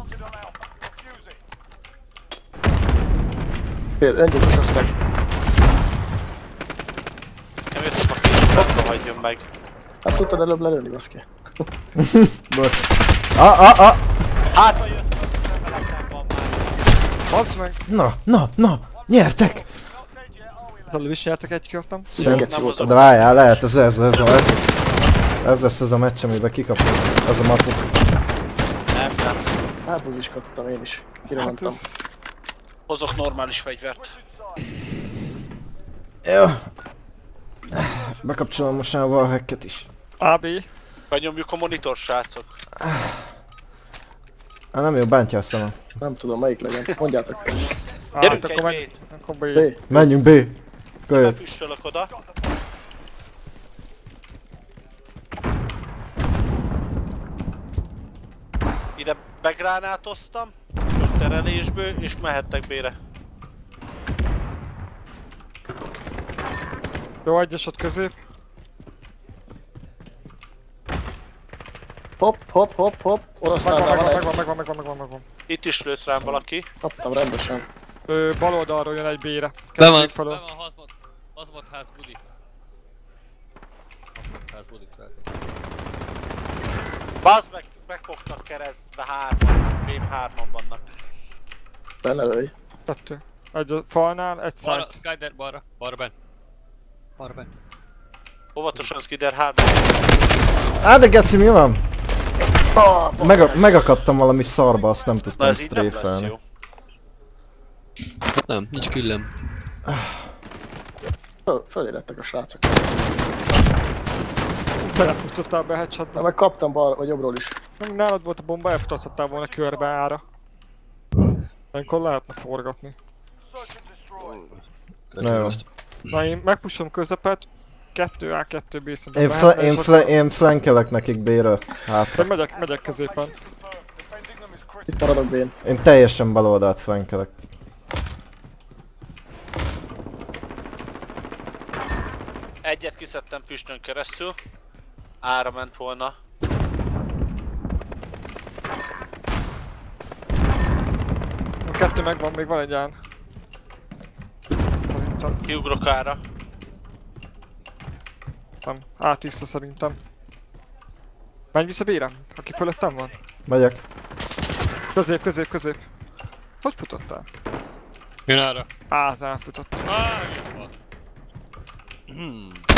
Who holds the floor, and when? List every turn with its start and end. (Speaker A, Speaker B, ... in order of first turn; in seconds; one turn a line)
Speaker A: 4.0-4.9
Speaker B: 7.7-9.5
Speaker A: 10.0-11.6
Speaker C: 12.0-14.0
Speaker B: 14.5-16.7
Speaker D: 17.3-17.8
Speaker C: 17.9-19.7
Speaker D: 20.9-22.1
Speaker C: 22.1-24.7
Speaker A: 22.1-23.0
Speaker B: 22.2-23.3
Speaker C: 25.4-27.9
Speaker B: 28.9-29.4
Speaker A: 29.9-31.8
Speaker D: 31.4-32.1
Speaker B: 32.9-34.2
Speaker C: 36.2-36.7
Speaker C: 37.7-39.9
Speaker D: 40.2-40.7
Speaker B: 41.1-42.5
Speaker C: 42.8-43.2
Speaker C: 44.7-45.8
Speaker A: 46.0-47.5
Speaker D: 48.1-49.7
Speaker B: 48.2-49.0
Speaker A: 49.5-50.0
Speaker C: 49.9-50.5
Speaker C: 51.1-51.4
Speaker B: 51.1-52.1
Speaker B: 59.0-63.0
Speaker D: 67.2-68.1
Speaker A: 72.2-74.3
Speaker D: 73.5-75.2
Speaker B: 75.5-76.7
Speaker A: 76.2-77.6
Speaker D: 78.1-80.4
Speaker E: 79.8-82.2
Speaker E: 84.2-85.2
Speaker B: 87.2-90.8
Speaker A: 92.0-92.5
Speaker D: 92.9-94.9
Speaker E: 94.6-96.1
Speaker E: 97.2-97.5
Speaker B: 98.5-100.1
Speaker C: 100.8-101.8
Speaker A: 102.7-103.8
Speaker C: 103.2-106.3
Speaker B: 105.4-106.4
Speaker E: 108.3-109.3
Speaker A: 111.5-112.8
Speaker D: 114.8-116.3
Speaker A: 116.1-117.6
Speaker D: 117.8-120.2
Speaker D: 121.7-122.9
Speaker E: 125.1-126.1
Speaker C: 125.2-125.6
Speaker D: 126.1-130.1
Speaker C: 129.1-132.3
Speaker D: 132.2-133.4
Speaker A: 134.9-135.6
Speaker C: 135.6-137.3
Speaker B: 142.6-144.3
Speaker B: 145.2-146.2
Speaker D: 151.6-153.0
Speaker D: 154.9-155.4
Speaker B: 155.5-156.2
Speaker D: 158.6-160.0
Speaker D: 161.5-163.1
Speaker C: 163.5-163.8
Speaker D: 164.9-165.8
Speaker D: 166.6-167.2
Speaker E: 168.3-168.7
Speaker D: 168.9-169.8
Speaker E: 169.8-170.8
Speaker E: 172.1-172.7